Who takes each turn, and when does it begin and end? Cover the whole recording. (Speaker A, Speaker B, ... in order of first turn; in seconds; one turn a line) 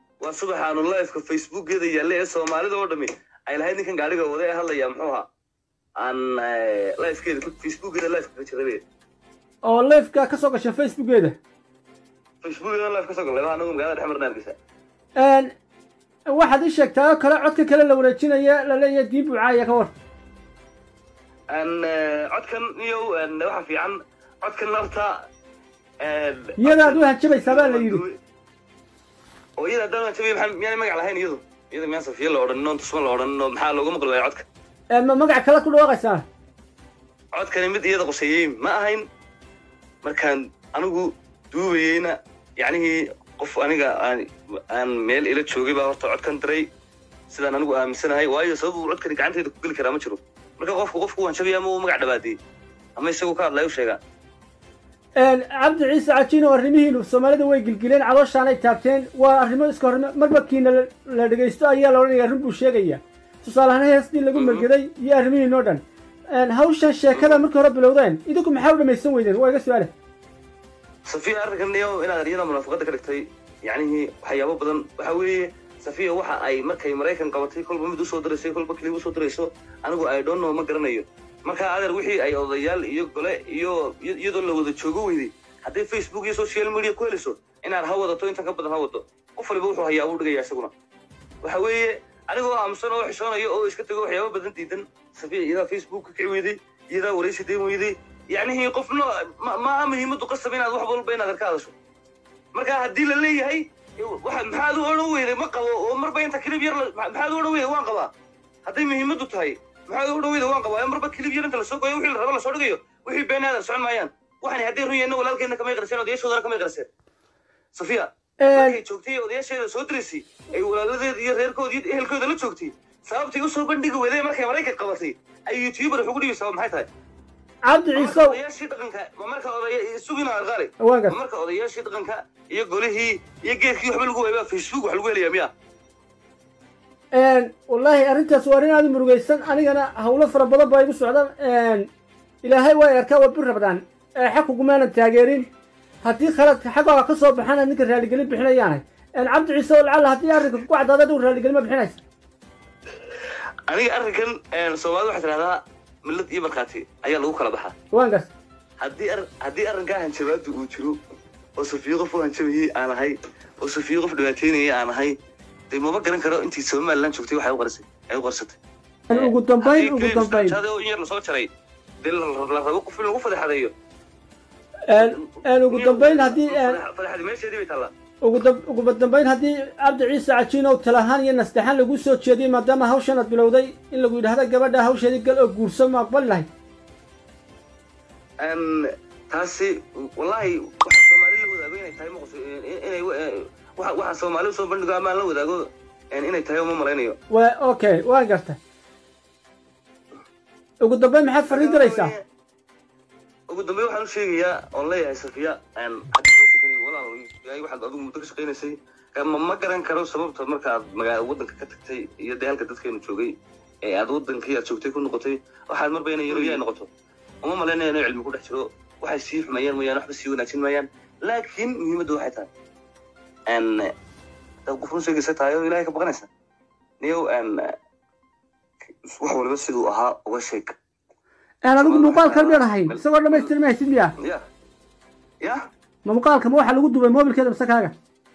Speaker A: 0.2-5.3
Speaker A: 6.0-8.8
Speaker B: 9.6-11.4
Speaker A: 12.4-14.6
Speaker B: 15.2-15.5
Speaker B: 16.3-19.9
Speaker A: 21.5-25.3
Speaker A: 26.0-28.2
Speaker B: 26.6-28.0
Speaker A: 29.6-34.5
Speaker B: 34.9-36.2
Speaker A: 37.3-39.1
Speaker A: 40.0-46.7
Speaker A: 47.3-52.4
Speaker A: 53.0-54.0
Speaker B: 55.2-69.9
Speaker A: 64.3-64.7
Speaker A: 67.1-67.5
Speaker A: 71.1-90.7
Speaker A: 91.4-101.7
Speaker A: 102.5-108.1
Speaker A: 108.7-116.9
Speaker A: 117.7-126.9
Speaker B: 118.4-118.8
Speaker B: 127.7-128.4
Speaker A: 128.0-135.5
Speaker B: 130.8-131.2
Speaker B: 137.1-141.9
Speaker B: 142.4-145.5
Speaker B: 146.0-152.0
Speaker A: 153.7-157.8
Speaker B: 157.9-158.3
Speaker A: 158.8-161.0
Speaker A: 161.6-165.2
Speaker A: 165.7-168.6
Speaker B: 169.1-170.6
Speaker A: 169.1-171.5
Speaker A: 172.0-173.7
Speaker B: 174.9-176.8
Speaker A: 174.9-177.9
Speaker B: 178.2-186.5
Speaker A: 188.4-197.2
Speaker B: 197.3-198.6
Speaker B: 200.8-202.1
Speaker A: 201.5-202.2
Speaker A: 203.5-216.9
Speaker A: 217.4-222.5
Speaker A: 223.5-223.9
Speaker A: 224.7-226.3
Speaker A: 227.0-227.7
Speaker A: 229.0-230.8
Speaker B: 231.6-234.1
Speaker A: 231.8-233.5
Speaker B: 236.1-237.9